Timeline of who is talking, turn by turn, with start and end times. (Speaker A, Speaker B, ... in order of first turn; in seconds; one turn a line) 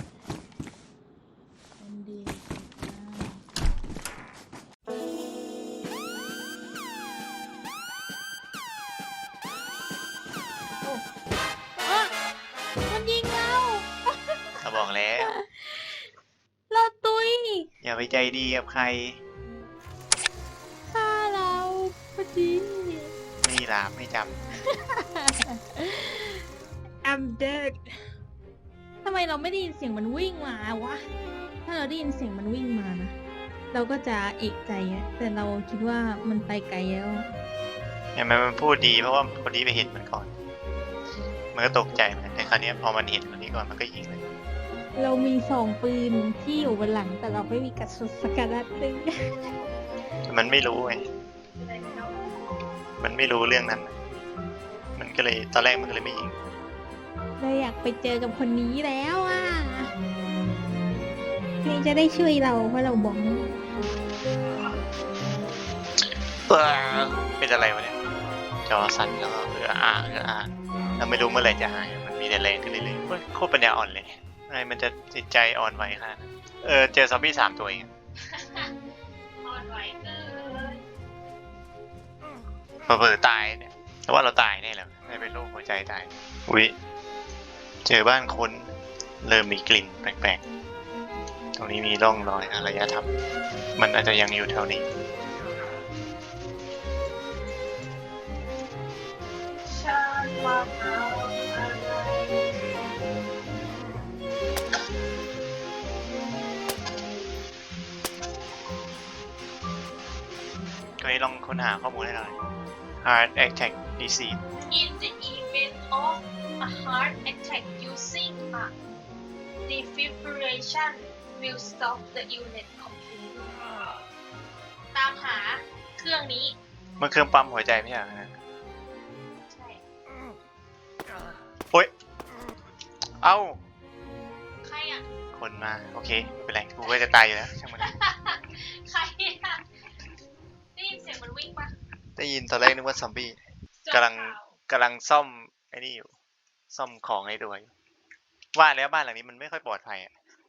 Speaker A: 1.8-3.4
Speaker A: 11.8-12.1
Speaker A: 12.9-14.6
Speaker B: 14.6-15.3
Speaker A: 15.2-16.1
Speaker A: 16.7-17.7
Speaker B: 17.8-19.2
Speaker A: 20.9-23.1
Speaker B: 23.4-24.4
Speaker A: 24.7-26.5
Speaker A: 27.0-27.9
Speaker A: 29.0-31.0
Speaker A: 31.6-33.1
Speaker A: 33.7-37.3
Speaker B: 38.1-40.3
Speaker B: 41.5-44.2
Speaker A: 44.9-49.3
Speaker B: 50.3-51.0
Speaker C: 51.6-52.2
Speaker B: 53.0-53.9
Speaker B: 55.0-56.3
Speaker A: 57.4-59.9
Speaker A: 61.6-63.5
Speaker B: 66.5-68.0
Speaker B: 68.7-77.9
Speaker C: 78.2-78.7
Speaker C: 79.4-80.8
Speaker B: 82.8-86.7
Speaker B: 87.8-88.7
Speaker B: 89.2-90.4
Speaker B: 91.5-93.1
Speaker B: 93.8-94.9
Speaker C: 99.7-102.5
Speaker B: 111.0-112.3
Speaker B: 113.0-114.4
Speaker C: 114.7-118.7
Speaker C: 119.7-124.0
Speaker C: 124.9-126.5
Speaker B: 127.0-128.3
Speaker C: 129.5-129.8
Speaker B: 133.2-133.6
Speaker C: 134.6-135.1
Speaker B: 135.3-137.9
Speaker C: 136.8-137.2
Speaker C: 137.7-139.6
Speaker C: 140.8-141.7
Speaker B: 142.2-143.4
Speaker C: 143.8-144.5
Speaker B: 143.9-146.2
Speaker B: 146.7-147.7
Speaker B: 148.5-150.1